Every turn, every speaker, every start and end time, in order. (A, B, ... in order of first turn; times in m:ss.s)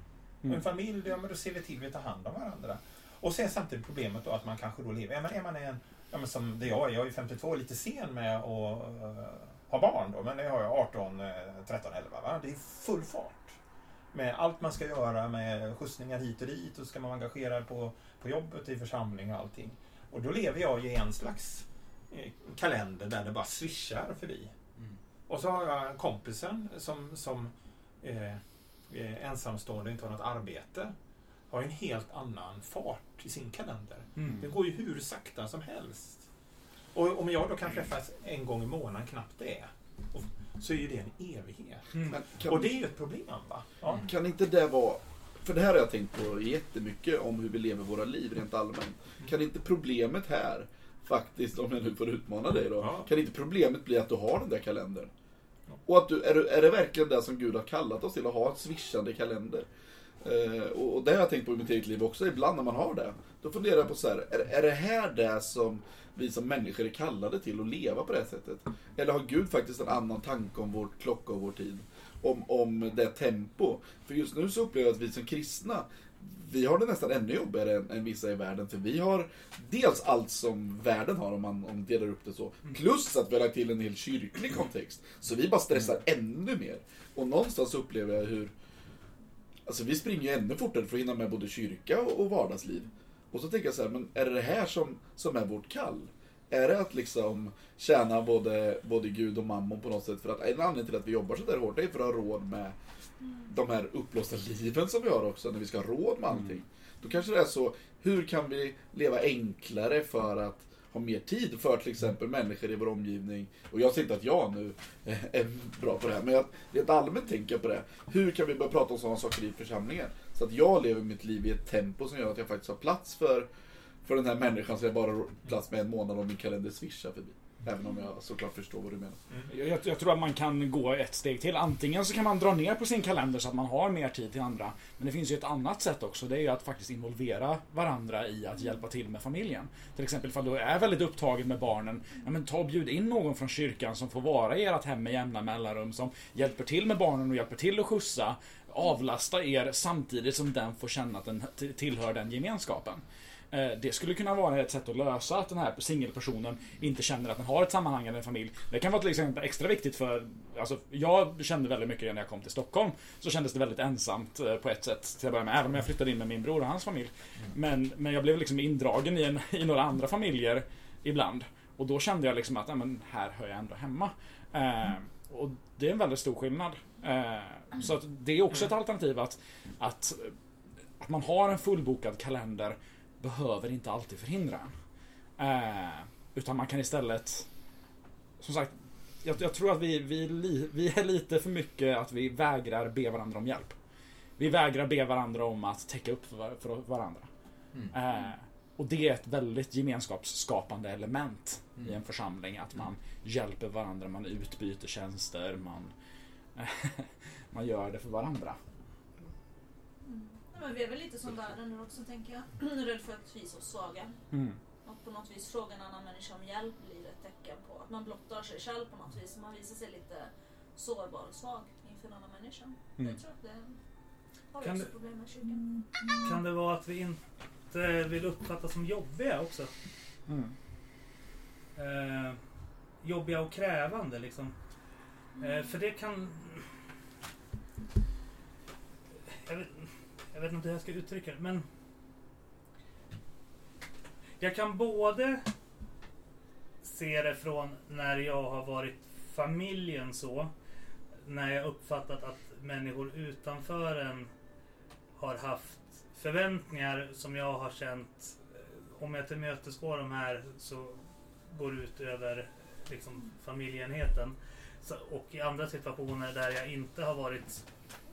0:00.4-0:13.5 A
0:14.1-0:24.5 A
0:25.3-0:30.9 A
0:31.5-0:36.2 A
0:36.9-0:44.0 A
0:42.1-0:42.7 B
0:44.0-0:55.1 B
0:52.8-0:53.1 A
0:55.8-0:59.7 B
1:00.2-1:28.5 B
1:29.6-1:42.8 B
1:43.5-2:03.5 B
2:04.0-2:09.2 B
2:09.5-3:00.4 C
3:01.0-3:04.7 C
3:05.4-3:07.5 C
3:08.4-3:13.7 C
3:14.4-3:17.3 C
3:17.9-3:25.9 C
3:26.6-3:28.6 C
3:30.0-3:34.2 D
3:34.3-3:34.6 C
3:34.8-3:43.8 D
3:44.5-3:46.3 D
3:44.6-3:44.9 E
3:46.2-3:47.2 E
3:47.7-3:49.7 E
3:50.3-3:50.5 C
3:51.8-3:52.4 E
3:53.0-3:54.5 E
3:55.4-3:56.7 E
3:59.4-4:01.6 E
4:04.4-4:05.4 E
4:06.8-4:10.5 E
4:11.2-4:14.3 E
4:15.2-4:18.4 E
4:19.0-4:21.0 E
4:21.5-4:27.6 E